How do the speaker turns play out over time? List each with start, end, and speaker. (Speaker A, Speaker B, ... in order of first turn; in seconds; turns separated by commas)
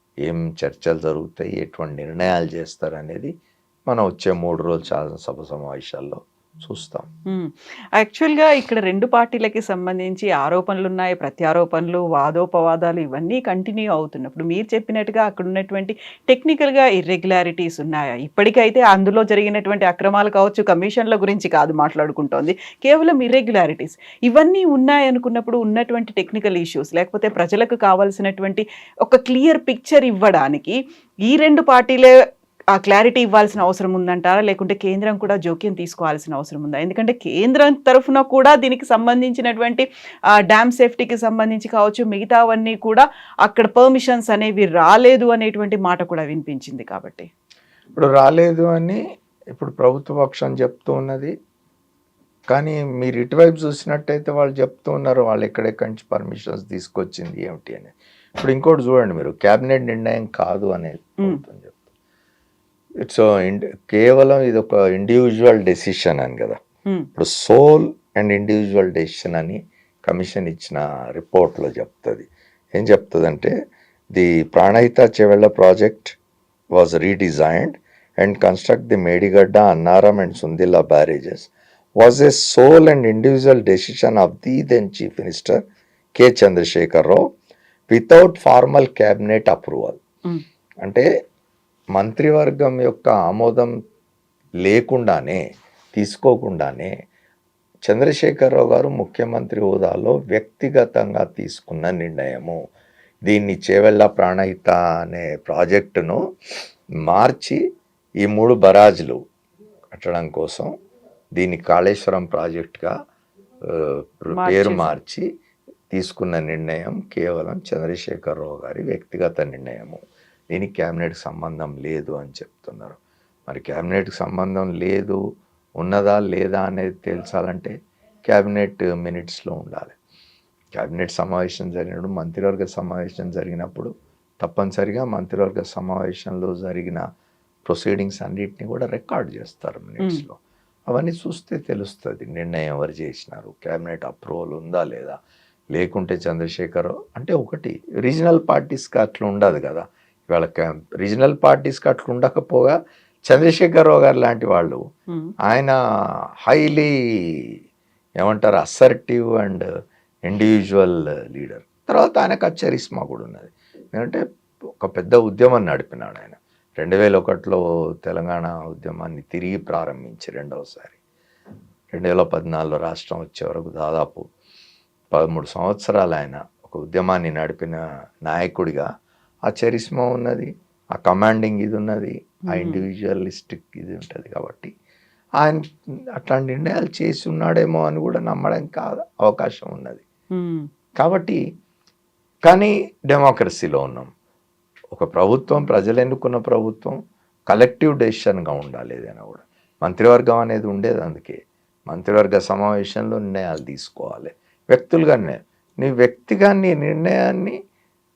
Speaker A: 0.2-3.3, Speaker A: 3.9-7.1, Speaker B: 7.3-32.2, Speaker B: 32.8-39.9, Speaker B: 40.4-47.3, Speaker A: 48.0-49.0, Speaker A: 49.5-51.3, Speaker A: 52.5-61.9, Speaker A: 63.0-66.6, Speaker A: 67.2-73.5, Speaker A: 74.1-76.2, Speaker A: 76.7-85.6, Speaker A: 86.2-87.2, Speaker A: 87.9-90.0, Speaker A: 92.0-93.8, Speaker A: 94.6-95.4, Speaker A: 95.9-96.9, Speaker A: 97.9-102.6, Speaker A: 103.3-106.2, Speaker A: 107.0-107.6, Speaker A: 108.2-109.2, Speaker A: 109.9-110.7, Speaker A: 111.4-112.9, Speaker A: 113.7-115.3, Speaker B: 114.3-114.9, Speaker A: 115.9-123.0, Speaker A: 123.5-125.2, Speaker A: 125.8-127.8, Speaker A: 128.3-130.0, Speaker A: 130.8-137.0, Speaker A: 137.7-140.4, Speaker A: 140.9-145.2, Speaker A: 145.7-152.8, Speaker A: 153.3-154.8, Speaker A: 155.5-155.8, Speaker A: 156.4-157.6, Speaker A: 158.2-159.7, Speaker A: 160.2-164.2, Speaker A: 164.8-171.0, Speaker A: 171.9-174.3, Speaker A: 175.1-178.9, Speaker A: 179.5-184.7, Speaker B: 182.5-182.8, Speaker A: 185.4-190.0, Speaker B: 190.3-190.7, Speaker A: 191.0-191.4, Speaker A: 192.4-194.1, Speaker A: 194.9-197.0, Speaker A: 197.5-201.4, Speaker A: 201.9-207.6